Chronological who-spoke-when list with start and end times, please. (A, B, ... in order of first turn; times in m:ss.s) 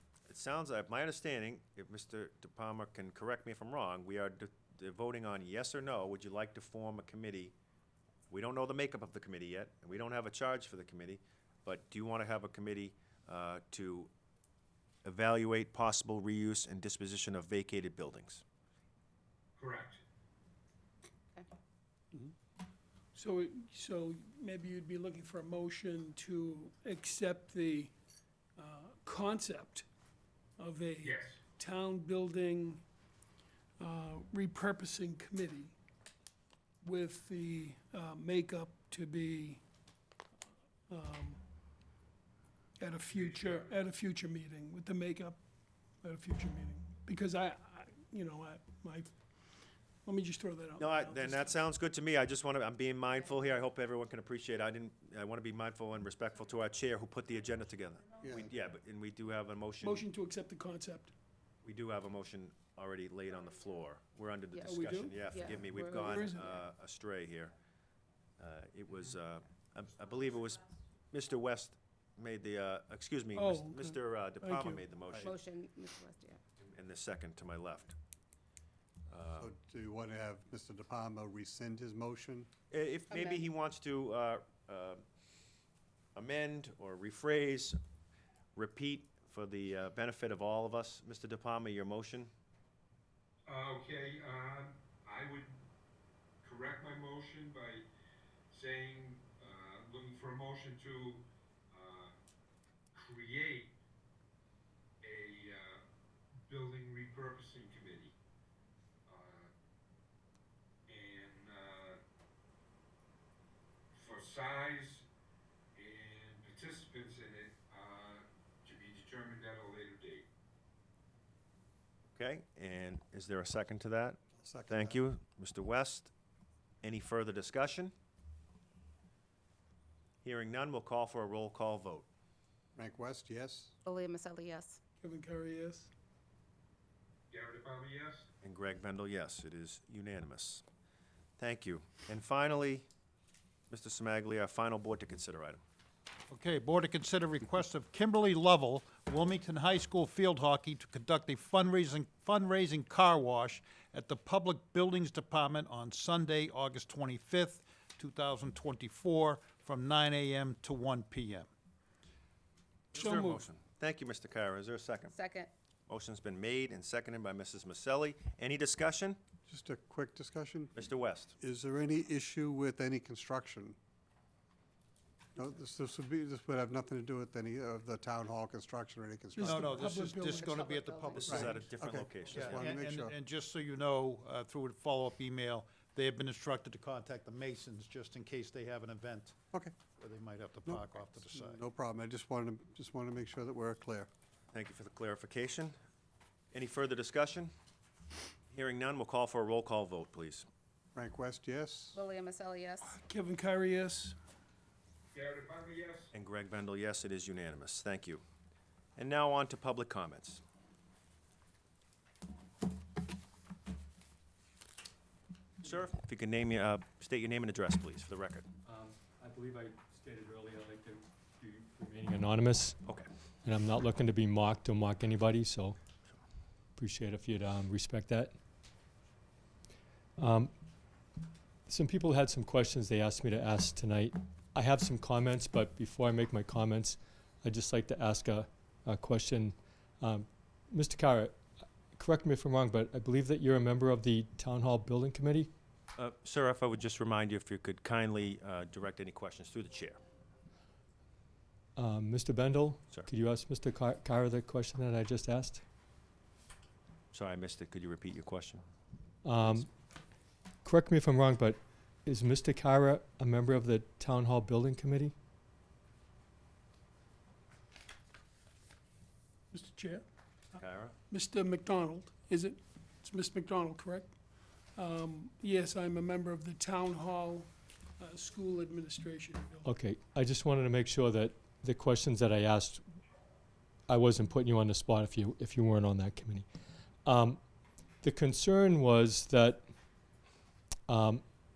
0:00.3-0:07.5 A
0:08.3-0:14.1 A
0:15.0-0:18.4 A
0:19.6-0:20.0 B
0:23.1-0:27.9 C
0:28.6-0:29.8 C
0:30.6-0:32.8 C
0:31.0-0:31.4 B
0:33.8-0:35.7 C
0:36.8-0:39.6 C
0:40.9-0:41.4 C
0:42.8-0:45.4 C
0:46.0-0:49.1 C
0:50.0-0:51.6 C
0:50.8-1:00.0 A
0:58.2-0:58.5 D
0:59.8-1:01.1 C
1:01.6-1:07.5 A
1:04.5-1:06.6 E
1:04.6-1:05.2 C
1:05.9-1:06.5 C
1:08.4-1:15.3 A
1:13.3-1:14.8 C
1:15.2-1:16.4 E
1:16.6-1:18.0 A
1:19.1-1:19.5 A
1:19.4-1:22.5 D
1:22.7-1:25.0 A
1:23.1-1:23.5 E
1:26.1-1:27.8 A
1:28.5-1:32.3 A
1:33.5-1:35.5 B
1:36.4-1:37.8 B
1:38.5-1:42.1 B
1:42.9-1:43.7 B
1:45.0-1:45.8 B
1:46.4-1:48.1 B
1:49.0-1:49.5 B
1:50.9-1:52.0 B
1:53.9-1:55.0 B
1:55.7-2:00.2 B
2:02.1-2:06.1 A
2:04.4-2:05.0 D
2:06.8-2:07.9 A
2:10.2-2:12.1 A
2:12.8-2:13.7 D
2:13.8-2:14.8 E
2:15.0-2:15.9 C
2:17.3-2:18.3 B
2:18.4-2:20.6 A
2:21.4-2:22.9 A
2:23.7-2:25.6 A
2:26.3-2:41.5 F
2:42.9-2:45.1 A
2:42.9-2:43.4 C
2:45.1-2:45.5 E
2:45.9-2:49.2 A
2:49.5-2:50.8 D
2:50.7-2:51.3 A
2:51.4-2:53.8 D
2:55.3-2:59.8 D
2:59.4-3:00.4 C
2:59.4-3:01.6 F
3:00.3-3:01.6 E
3:01.1-3:02.7 A
3:01.3-3:03.1 D
3:02.3-3:09.4 F
3:10.0-3:11.6 F
3:10.6-3:14.1 D
3:14.5-3:15.7 A
3:16.5-3:17.5 A
3:18.5-3:20.5 A
3:20.9-3:22.0 D
3:21.9-3:23.0 E
3:22.8-3:24.2 C
3:25.1-3:26.1 B
3:26.1-3:28.2 A
3:29.0-3:30.4 A
3:35.6-3:38.5 A
3:38.6-3:42.8 G
3:43.4-3:45.8 G
3:46.8-3:48.3 G
3:50.2-3:50.5 G
3:51.7-4:01.4 G
4:01.9-4:05.5 G
4:06.0-4:10.0 A
4:11.8-4:15.6 G
4:17.1-4:18.6 A
4:19.2-4:19.7 G
4:20.6-4:25.1 G
4:29.5-4:30.0 C
4:30.5-4:30.9 A
4:31.1-4:34.1 C
4:34.8-4:39.7 C
4:39.6-4:42.8 G
4:43.9-4:46.4 G
4:47.0-4:47.4 G
4:48.0-4:49.6 G
4:50.9-4:51.2 G